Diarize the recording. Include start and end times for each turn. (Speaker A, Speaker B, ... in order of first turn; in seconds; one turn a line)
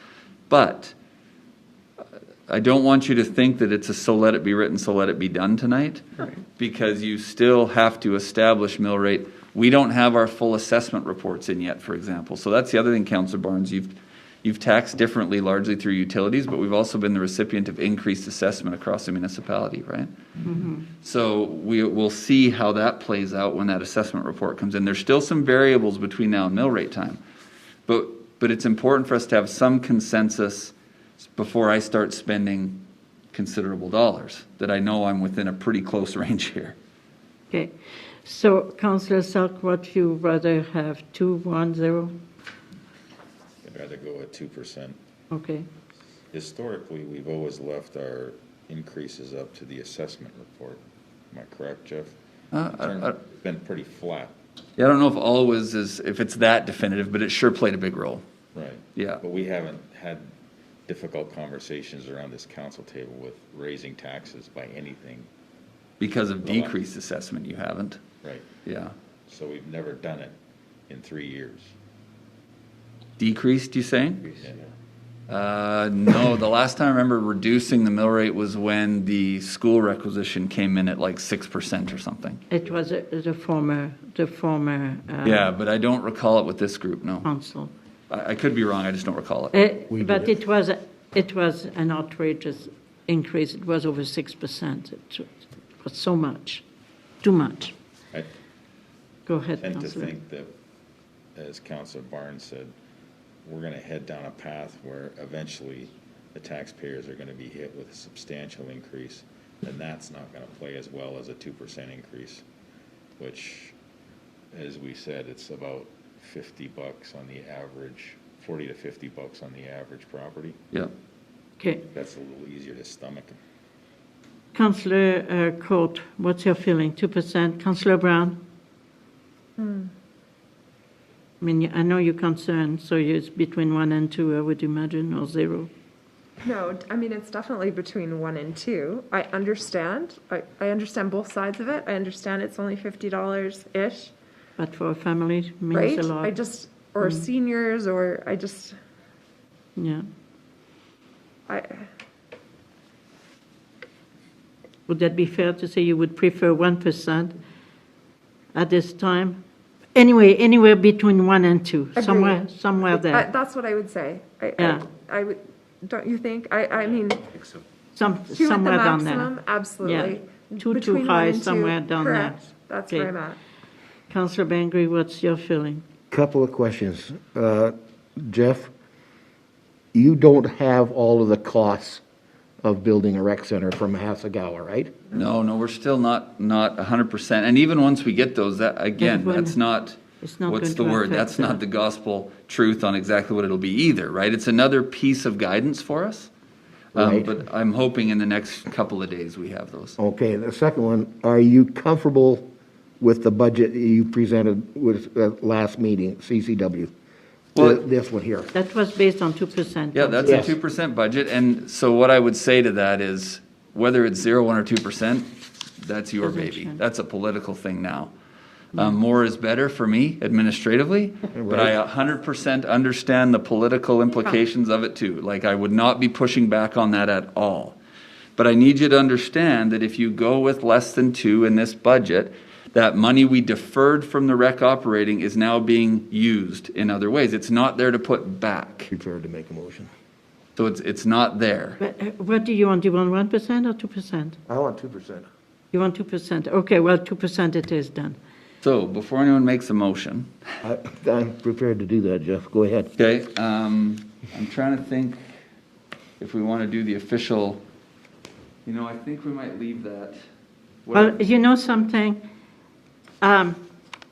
Speaker A: 0.5-0.9
Speaker A: 2.5-20.1
Speaker B: 20.4-20.9
Speaker A: 21.0-27.2
Speaker A: 27.9-32.8
Speaker A: 33.3-36.8
Speaker B: 38.2-42.1
Speaker C: 43.6-45.0
Speaker B: 45.3-45.7
Speaker C: 46.3-52.1
Speaker A: 52.5-53.1
Speaker C: 52.6-54.3
Speaker A: 54.8-58.2
Speaker C: 58.5-60.3
Speaker A: 58.9-59.2
Speaker C: 60.9-65.3
Speaker A: 66.0-68.0
Speaker C: 66.4-66.7
Speaker A: 68.6-68.9
Speaker C: 69.3-70.3
Speaker C: 70.9-71.7
Speaker A: 73.2-74.4
Speaker A: 75.3-82.4
Speaker B: 82.5-85.5
Speaker A: 85.2-87.2
Speaker B: 87.2-87.7
Speaker A: 88.1-89.5
Speaker B: 89.5-96.6
Speaker D: 89.9-90.3
Speaker B: 97.2-97.7
Speaker B: 99.3-100.1
Speaker C: 99.6-100.5
Speaker C: 101.3-102.7
Speaker C: 103.4-112.4
Speaker C: 113.2-113.7
Speaker C: 114.5-120.6
Speaker B: 121.6-121.8
Speaker C: 121.9-123.4
Speaker B: 124.5-128.4
Speaker E: 129.6-129.9
Speaker B: 131.4-135.7
Speaker E: 136.4-144.1
Speaker B: 144.6-146.3
Speaker E: 145.7-148.7
Speaker B: 147.0-147.3
Speaker B: 149.8-150.0
Speaker E: 151.5-151.8
Speaker B: 154.9-157.3
Speaker B: 158.5-159.4
Speaker B: 159.9-163.3
Speaker E: 161.9-167.3
Speaker B: 164.6-164.9
Speaker B: 167.9-173.1
Speaker E: 168.3-173.4
Speaker B: 174.1-175.8
Speaker D: 176.1-178.7
Speaker D: 179.9-182.0
Speaker D: 182.6-185.0
Speaker A: 185.1-196.3
Speaker B: 189.0-189.6
Speaker B: 190.2-191.6
Speaker A: 196.9-200.0
Speaker D: 196.9-197.3
Speaker D: 200.0-202.5
Speaker D: 203.0-206.9
Speaker A: 207.5-207.8
Speaker D: 207.5-208.5
Speaker B: 208.5-210.5
Speaker A: 209.9-218.1
Speaker D: 210.2-210.5
Speaker B: 216.2-216.8
Speaker A: 218.7-227.8
Speaker D: 221.3-221.8
Speaker A: 228.4-238.9
Speaker D: 238.9-239.9
Speaker A: 240.6-241.8
Speaker B: 241.8-244.4
Speaker D: 244.5-245.2
Speaker B: 245.7-248.2
Speaker A: 248.6-250.3
Speaker D: 250.6-252.9
Speaker A: 253.0-255.2
Speaker A: 256.2-257.6
Speaker A: 258.6-260.2
Speaker A: 260.8-261.2
Speaker B: 260.9-262.2
Speaker B: 263.2-263.6